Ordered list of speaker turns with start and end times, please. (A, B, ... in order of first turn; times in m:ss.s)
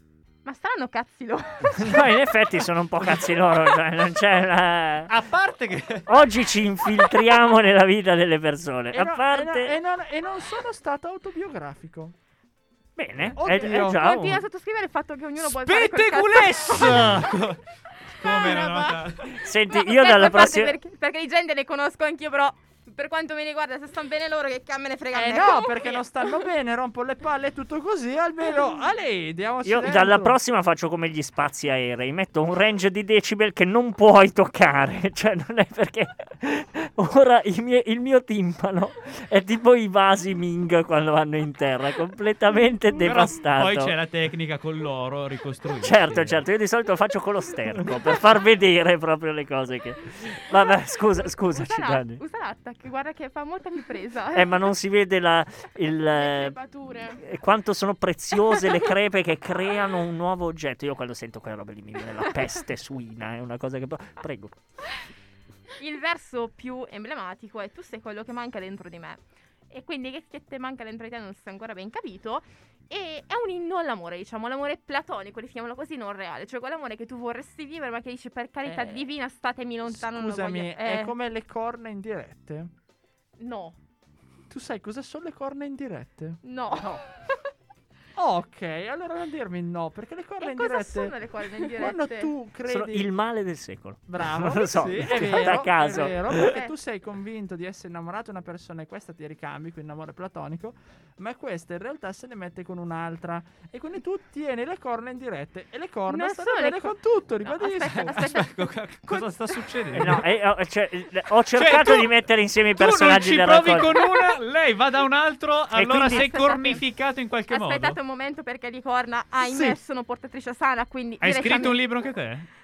0:00.4-0:02.1 A
0:01.7-0:05.1 B
0:05.1-0:06.1 C
0:06.1-0:09.8 B
0:08.9-0:12.1 D
0:13.0-0:14.4 B
0:13.4-0:14.0 D
0:13.5-0:17.3 A
0:15.4-0:17.6 C
0:18.1-0:19.3 C
0:18.2-0:19.1 E
0:19.3-0:20.8 B
0:19.7-0:26.0 A
0:25.1-0:30.4 D
0:29.6-0:43.9 B
0:43.0-0:46.4 C
0:45.8-0:52.2 B
0:51.1-0:54.7 A
0:54.3-0:56.6 B
0:56.1-0:57.2 E
0:57.1-1:04.6 B
1:05.8-1:21.2 A
1:18.6-1:19.1 D
1:19.9-1:22.7 D
1:23.4-1:23.8 A
1:24.5-1:27.0 D
1:26.4-1:27.0 A
1:28.1-1:31.2 D
1:30.4-1:32.3 A
1:31.7-1:33.1 D
1:32.6-1:36.6 B
1:34.1-1:48.2 D
1:36.3-1:36.7 A
1:46.1-1:49.2 A
1:48.0-1:50.2 C
1:49.9-1:54.0 B
1:51.6-1:52.2 C
1:52.8-1:58.0 C
1:55.7-1:56.3 B
1:56.0-1:56.8 A
1:57.5-2:01.8 A
1:59.4-1:59.8 D
2:01.2-2:02.5 C